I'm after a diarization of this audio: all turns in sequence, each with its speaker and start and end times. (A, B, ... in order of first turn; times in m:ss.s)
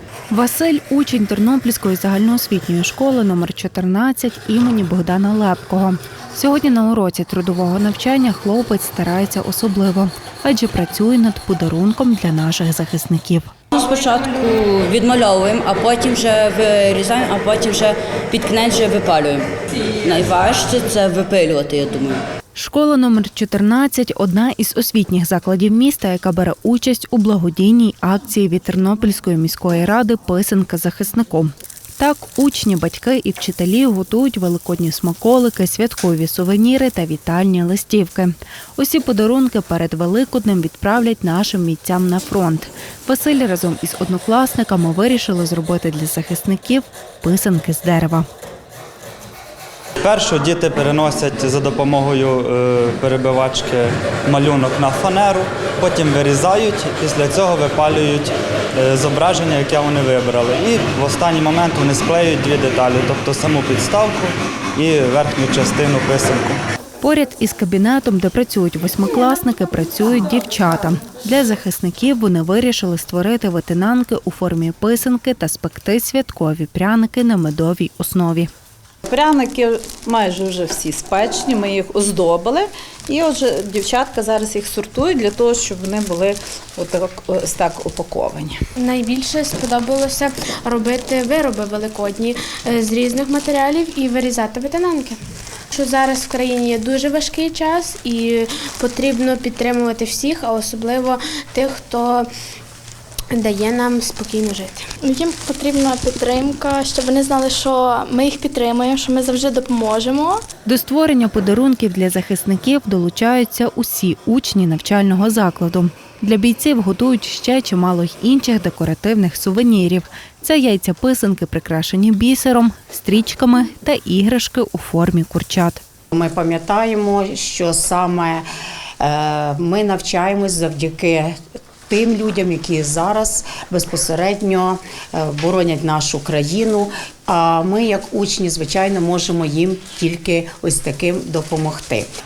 0:00.3-0:13.5 A
0:13.7-0:19.5 B
0:20.0-0:22.2 B
0:22.6-0:48.3 A
0:50.0-1:06.6 C
1:07.0-1:18.5 A
1:19.0-1:28.6 D
1:28.8-1:35.2 E
1:35.7-1:42.3 E
1:43.3-1:44.8 E
1:45.0-1:50.4 F
1:50.7-2:05.8 A
2:06.1-2:08.4 G
2:09.0-2:11.4 G
2:11.9-2:22.1 G